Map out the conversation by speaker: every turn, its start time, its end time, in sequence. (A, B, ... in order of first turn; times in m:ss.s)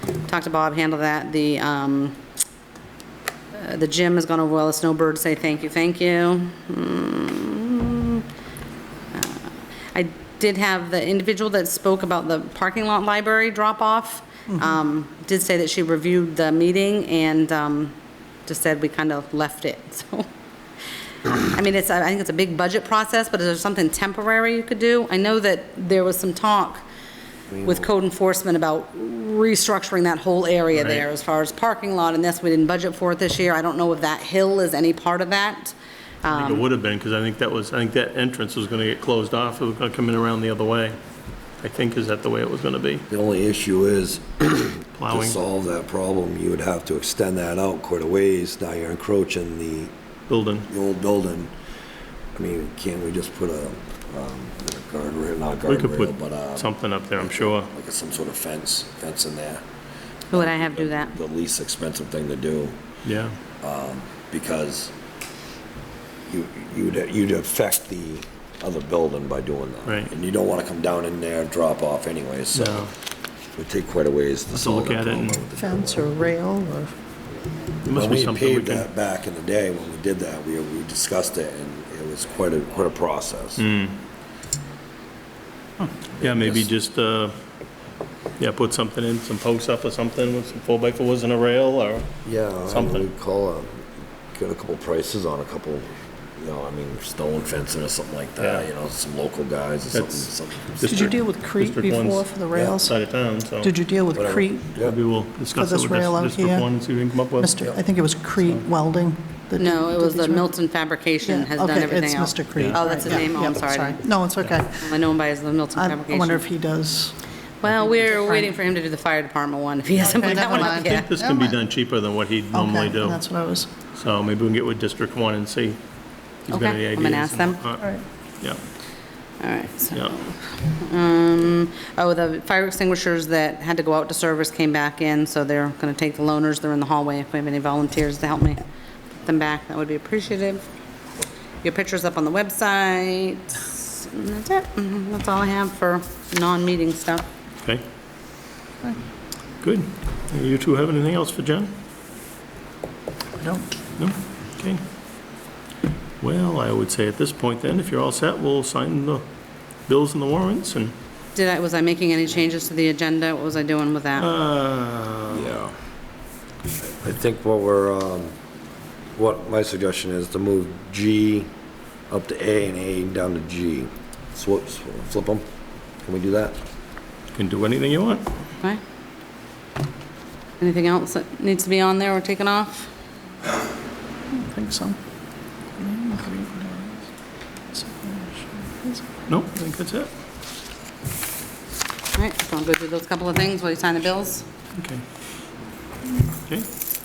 0:00.2-0:02.2 A
0:03.5-0:08.2 A
0:09.1-0:17.9 A
0:18.5-0:20.3 A
0:21.2-0:26.8 A
0:27.5-0:27.8 B
0:27.6-0:36.6 A
0:30.7-0:31.0 C
0:36.3-0:41.0 C
0:41.6-0:43.0 C
0:43.1-0:49.9 B
0:45.0-0:45.4 C
0:50.3-0:50.7 C
0:50.7-0:51.5 B
0:52.4-0:59.6 B
0:55.7-0:57.7 C
1:00.3-1:01.2 A
1:00.3-1:02.8 B
1:03.0-1:03.4 C
1:03.6-1:04.9 B
1:06.3-1:12.9 B
1:12.5-1:12.9 C
1:13.6-1:16.1 B
1:14.5-1:15.4 C
1:15.6-1:16.9 D
1:17.8-1:18.9 C
1:17.8-1:23.6 B
1:23.6-1:24.0 C
1:26.2-1:26.7 B
1:26.2-1:27.3 C
1:28.4-1:32.1 C
1:32.2-1:33.8 B
1:32.6-1:33.1 C
1:34.3-1:41.1 B
1:38.4-1:38.7 C
1:39.9-1:43.7 C
1:40.9-1:42.9 D
1:42.5-1:42.8 B
1:43.6-1:44.8 D
1:44.1-1:45.0 B
1:44.8-1:47.6 C
1:45.5-1:46.7 D
1:47.4-1:50.5 D
1:49.6-1:54.0 A
1:51.2-1:55.0 D
1:52.6-1:52.9 C
1:54.8-1:56.4 A
1:55.7-1:57.2 D
1:57.6-2:01.1 A
1:57.9-1:58.5 D
2:00.0-2:01.6 D
2:00.0-2:03.2 C
2:02.5-2:03.7 D
2:03.9-2:05.8 C
2:06.4-2:07.8 C
2:06.5-2:07.6 A
2:09.4-2:18.6 A
2:19.2-2:20.6 A
2:21.6-2:27.2 A
2:29.6-2:31.7 C
2:33.4-2:33.7 D
2:34.0-2:34.8 C
2:36.2-2:39.2 C
2:39.9-2:40.9 C
2:41.3-2:44.3 A
2:44.2-2:45.5 C
2:45.3-2:45.7 B
2:47.0-2:48.3 B
2:49.2-2:51.5 B
2:52.1-2:55.4 B
2:56.0-2:56.6 B
2:57.3-2:58.2 C
3:00.6-3:02.9 A
3:04.3-3:05.0 D
3:05.8-3:07.0 D
3:07.7-3:09.1 D
3:09.3-3:10.1 C
3:12.2-3:14.5 A
3:14.8-3:15.0 C